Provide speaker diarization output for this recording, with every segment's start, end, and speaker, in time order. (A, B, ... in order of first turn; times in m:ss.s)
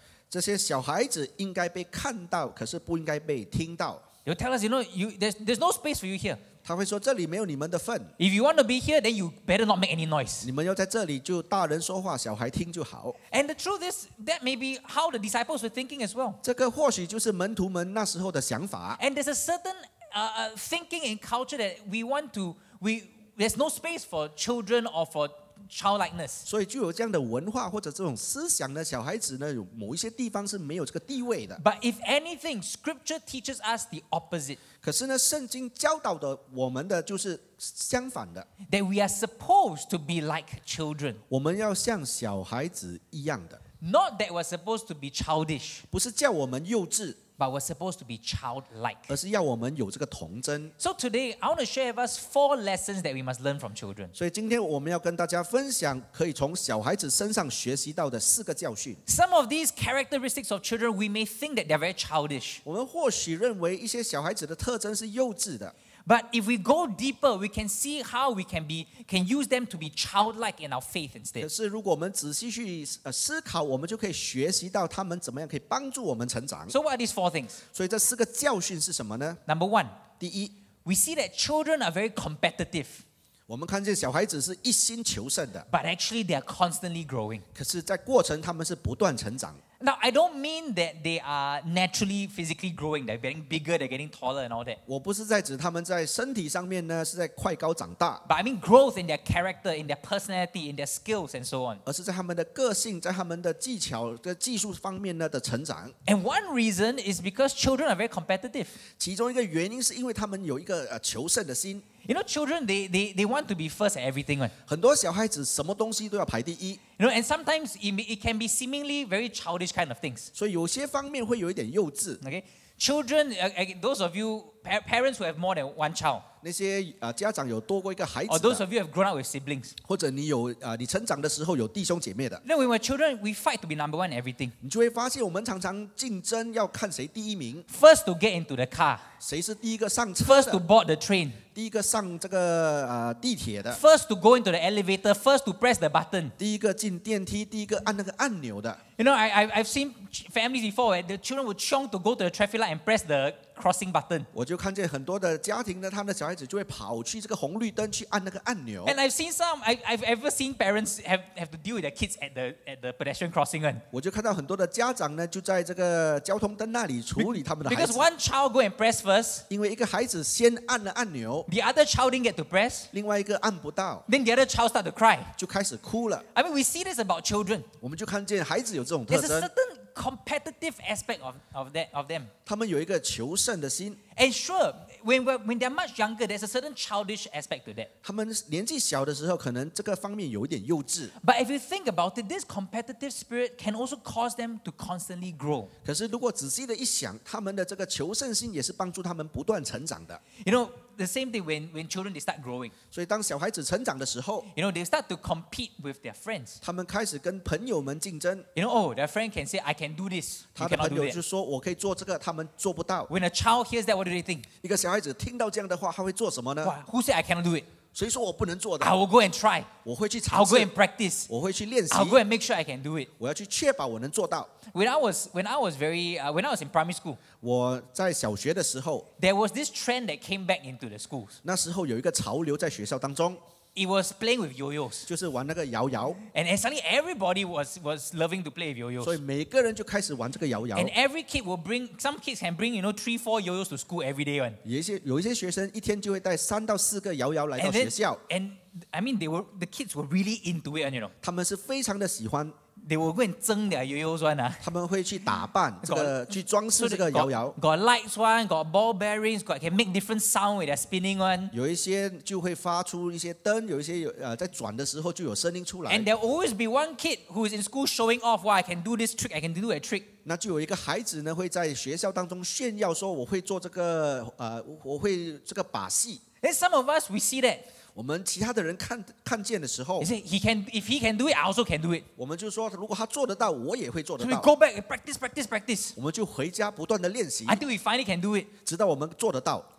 0:00.3-0:04.0 A
0:04.2-0:06.4 B
0:06.6-0:08.1 A
0:08.2-0:10.5 B
0:10.4-0:13.2 A
0:13.3-0:16.4 B
0:16.4-0:19.0 A
0:19.0-0:26.4 B
0:26.4-0:31.6 A
0:31.6-0:34.6 B
0:34.8-0:38.5 A
0:38.7-0:41.2 B
0:41.3-0:43.6 A
0:43.8-0:45.8 B
0:45.9-0:47.2 A
0:47.4-0:49.1 B
0:49.1-0:50.7 A
0:50.8-0:54.1 B
0:54.1-0:59.0 A
0:59.1-1:02.6 B
1:02.6-1:05.7 A
1:06.0-1:11.5 B
1:11.4-1:16.7 A
1:16.7-1:17.6 B
1:17.7-1:19.4 A
1:19.5-1:20.0 B
1:20.2-1:20.5 A
1:20.8-1:23.0 B
1:23.5-1:25.6 A
1:25.7-1:27.4 B
1:27.5-1:29.6 A
1:29.8-1:34.8 B
1:34.9-1:38.2 A
1:38.2-1:41.8 B
1:41.8-1:45.9 A
1:46.0-1:48.8 B
1:49.0-1:51.8 A
1:52.0-1:54.5 B
1:54.7-1:56.8 A
1:57.0-2:00.3 B
2:00.3-2:02.2 A
2:02.2-2:06.2 B
2:06.4-2:08.6 A
2:08.3-2:09.7 B
2:09.8-2:12.4 A
2:12.4-2:14.5 B
2:14.6-2:17.6 A
2:17.7-2:19.1 B
2:19.2-2:20.6 A
2:20.2-2:21.4 B
2:21.5-2:23.8 A
2:23.7-2:26.3 B
2:26.4-2:28.8 A
2:29.0-2:34.3 B
2:34.3-2:38.9 A
2:38.8-2:43.8 B
2:43.9-2:48.1 A
2:47.2-2:49.4 B
2:49.5-2:51.4 A
2:51.5-2:52.9 B
2:52.9-2:54.0 A
2:54.1-2:55.3 B
2:55.4-2:56.2 A
2:56.3-2:57.7 B
2:57.8-2:59.5 A
2:59.1-3:02.3 B
3:02.4-3:04.0 A
3:04.1-3:07.9 B
3:08.0-3:11.1 A
3:11.2-3:15.7 B
3:15.8-3:20.2 A
3:20.4-3:22.7 B
3:22.9-3:24.5 A
3:24.5-3:26.6 B
3:26.6-3:28.4 A
3:28.5-3:31.2 B
3:30.6-3:33.1 A
3:33.1-3:34.5 B
3:34.6-3:36.8 A
3:36.6-3:37.7 B
3:37.9-3:38.9 A
3:38.8-3:39.7 B
3:39.8-3:40.7 A
3:40.3-3:41.3 B
3:41.3-3:42.2 A
3:41.9-3:43.1 B
3:43.2-3:44.5 A
3:44.7-3:47.2 B
3:47.4-3:49.1 A
3:49.2-3:51.4 B
3:51.4-3:53.4 A
3:53.8-3:55.1 B
3:55.0-3:56.2 A
3:56.3-3:59.2 B
3:59.0-4:00.9 A
4:00.7-4:04.6 B
4:04.6-4:08.2 A
4:07.6-4:11.1 B
4:11.2-4:12.5 A
4:12.8-4:14.6 B
4:14.6-4:17.6 A
4:15.8-4:21.5 B
4:21.5-4:26.1 A
4:25.9-4:30.1 B
4:30.2-4:36.2 A
4:36.4-4:37.6 B
4:37.9-4:40.1 A
4:40.0-4:42.1 B
4:42.2-4:44.5 A
4:44.2-4:46.0 B
4:46.0-4:47.6 A
4:47.4-4:48.5 B
4:48.6-4:49.7 A